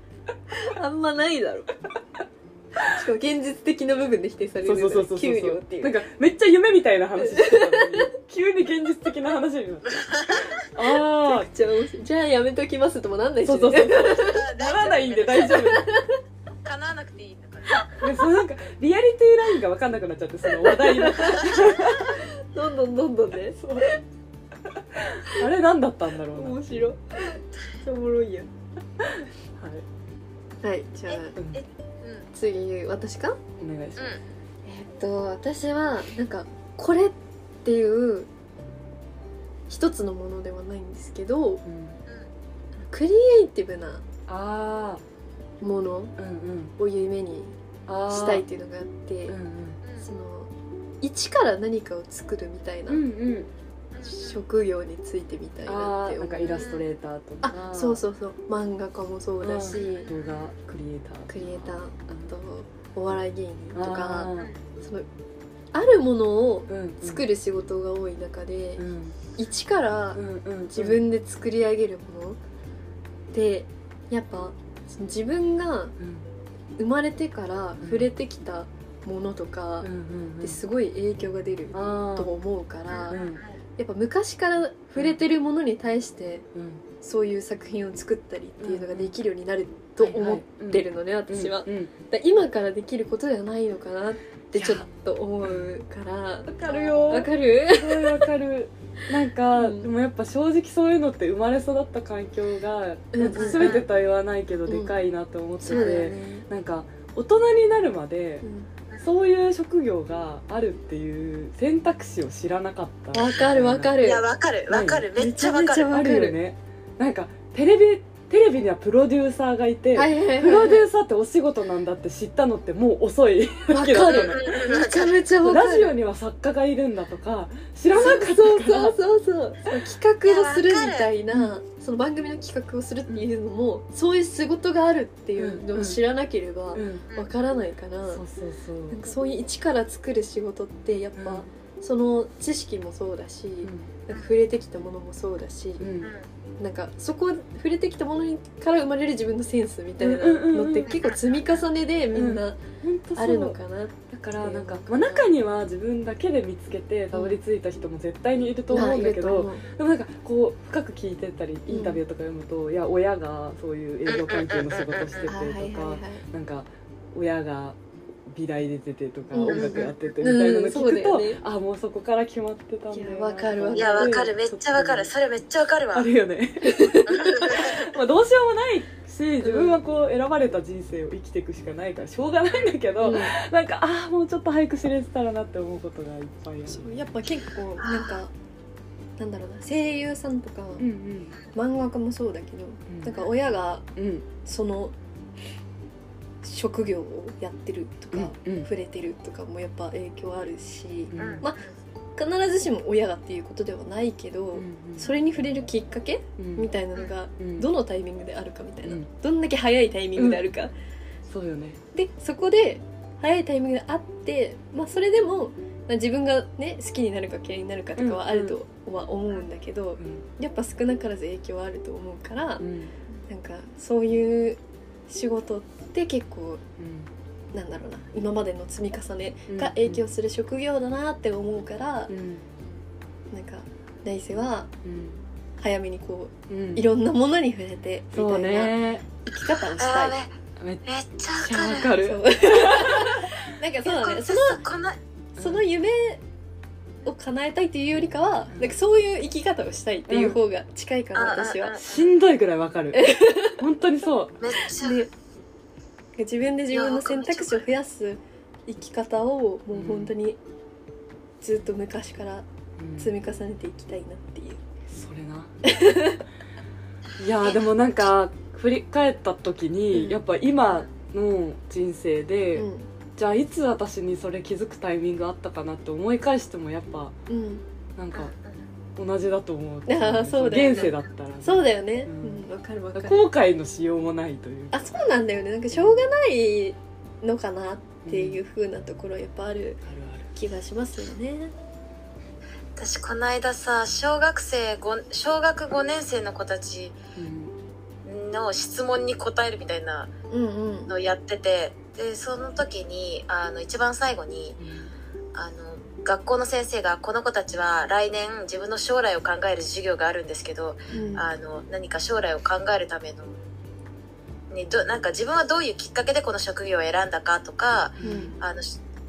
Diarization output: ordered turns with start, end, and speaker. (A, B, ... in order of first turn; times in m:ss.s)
0:00.6-0:01.7 A
0:02.8-0:06.0 A
0:04.6-0:11.5 B
0:07.2-0:08.1 A
0:09.9-0:10.5 C
0:11.2-0:14.4 A
0:13.4-0:15.9 B
0:14.2-0:15.6 C
0:15.5-0:16.2 A
0:16.6-0:17.9 C
0:18.0-0:22.1 B
0:20.6-0:24.0 A
0:23.5-0:23.9 B
0:24.7-0:26.9 B
0:26.3-0:28.5 A
0:29.0-0:29.8 B
0:30.6-0:31.4 A
0:31.1-0:32.3 C
0:31.4-0:31.6 B
0:32.3-0:33.4 A
0:33.6-0:34.2 B
0:34.6-0:38.3 A
0:39.7-0:41.6 A
0:41.6-0:42.0 B
0:42.9-0:44.0 A
0:44.3-0:45.0 B
0:45.6-0:46.1 A
0:46.2-0:46.7 B
0:46.8-0:47.5 A
0:47.9-0:48.4 B
0:48.1-0:49.4 A
0:49.3-0:49.8 B
0:50.0-0:50.5 A
0:51.0-0:53.0 A
0:52.9-0:53.5 B
0:53.9-0:54.4 C
0:54.0-0:56.6 A
0:55.6-0:58.0 B
0:56.5-0:56.8 C
0:57.4-1:00.1 A
0:59.4-1:02.3 B
0:59.7-1:00.5 C
1:01.3-1:05.0 A
1:03.7-1:04.5 B
1:05.7-1:12.4 A
1:06.7-1:07.2 B
1:08.8-1:09.2 B
1:10.1-1:11.0 B
1:13.3-1:16.0 A
1:16.0-1:16.3 B
1:16.8-1:19.9 A
1:17.8-1:18.1 B
1:19.8-1:20.6 B
1:20.4-1:23.2 A
1:21.7-1:22.3 B
1:22.9-1:23.6 C
1:23.1-1:23.4 B
1:23.8-1:26.4 A
1:26.5-1:26.8 B
1:27.0-1:38.3 A
1:28.6-1:29.1 B
1:30.0-1:31.9 B
1:34.5-1:34.9 B
1:35.4-1:35.7 B
1:36.4-1:48.4 B
1:39.6-1:39.9 A
1:43.1-1:43.8 A
1:43.3-1:43.8 C
1:44.7-1:45.0 A
1:45.6-1:46.4 A
1:48.4-1:48.7 A
1:49.0-1:54.0 B
1:53.1-1:54.2 A
1:54.0-1:56.1 C
1:54.7-2:04.5 B
1:55.9-1:56.3 A
1:59.9-2:00.8 A
2:03.7-2:05.9 A
2:04.0-2:05.2 C
2:05.4-2:09.0 B
2:07.9-2:18.2 A
2:10.2-2:11.1 C
2:15.4-2:16.0 B
2:16.7-2:17.1 B
2:18.0-2:19.0 B
2:18.9-2:25.9 A
2:21.1-2:21.5 B
2:23.6-2:23.9 B
2:25.8-2:26.1 B
2:26.6-2:32.6 A
2:30.0-2:30.9 B
2:30.9-2:31.4 C
2:32.1-2:33.6 B
2:33.1-2:35.3 A
2:34.1-2:55.1 B
2:38.7-2:39.6 A
2:41.7-2:42.0 A
2:44.1-2:45.3 C
2:45.3-2:46.2 A
2:49.3-2:51.4 A
2:49.5-2:49.9 C
2:52.9-2:54.3 A
2:53.7-2:56.1 C
2:55.9-3:06.9 B
2:56.6-2:57.2 A
2:57.1-2:57.8 C
2:59.4-2:59.8 A
3:03.0-3:03.3 A
3:06.7-3:08.3 A
3:07.8-3:08.2 C
3:09.2-3:10.9 A
3:10.8-3:11.3 B
3:11.5-3:13.8 A
3:12.9-3:13.2 B
3:14.0-3:14.2 B
3:14.4-3:14.9 A
3:16.4-3:21.6 A
3:18.1-3:18.7 B
3:21.1-3:21.4 B
3:21.2-3:21.7 C
3:22.2-3:30.7 A
3:24.5-3:25.1 B
3:26.4-3:26.7 B
3:27.4-3:27.7 B
3:30.2-3:30.4 B
3:31.3-3:31.8 B
3:31.9-3:42.6 A
3:38.0-3:38.6 B
3:40.0-3:40.2 B
3:42.6-3:42.9 B
3:43.3-3:46.6 A
3:46.8-3:47.1 B
3:47.5-3:52.1 A
3:49.5-3:50.0 B
3:52.1-3:52.4 B
3:53.3-3:54.7 A
3:54.8-3:55.2 B
3:55.6-4:00.2 A
3:56.5-3:56.8 B
3:58.1-3:59.0 B
3:59.8-4:00.3 C
4:00.8-4:01.9 C
4:01.4-4:03.3 B
4:02.0-4:04.6 A
4:03.8-4:05.0 C
4:05.4-4:05.6 B
4:05.4-4:06.2 A
4:07.0-4:11.8 A
4:10.1-4:10.4 B
4:11.1-4:12.1 C
4:11.8-4:14.4 B
4:12.9-4:13.6 A
4:14.4-4:15.0 C
4:14.8-4:15.1 A
4:16.2-4:20.4 A
4:16.7-4:17.6 C
4:19.7-4:20.1 B
4:21.4-4:22.4 A
4:22.8-4:23.1 B
4:23.0-4:24.6 A
4:24.9-4:25.5 B
4:25.6-4:26.2 A
4:27.2-4:37.2 B
4:29.9-4:30.2 A
4:32.5-4:32.9 A
4:37.3-4:37.6 A
4:38.0-4:38.3 B
4:38.1-4:38.6 C
4:39.0-4:42.4 B
4:39.9-4:43.3 A
4:43.0-4:44.9 B
4:44.7-4:49.8 A
4:45.7-4:46.0 B
4:48.0-4:48.4 B
4:49.8-4:50.3 B
4:50.3-4:51.5 A
4:52.8-4:57.0 C
4:57.2-4:57.5 B
4:58.0-5:00.1 C
5:00.3-5:00.9 A
5:00.9-5:04.6 C
5:04.6-5:04.9 B
5:05.3-5:13.4 C
5:10.9-5:11.2 A
5:14.5-5:18.8 C
5:18.0-5:18.4 B
5:18.0-5:18.3 A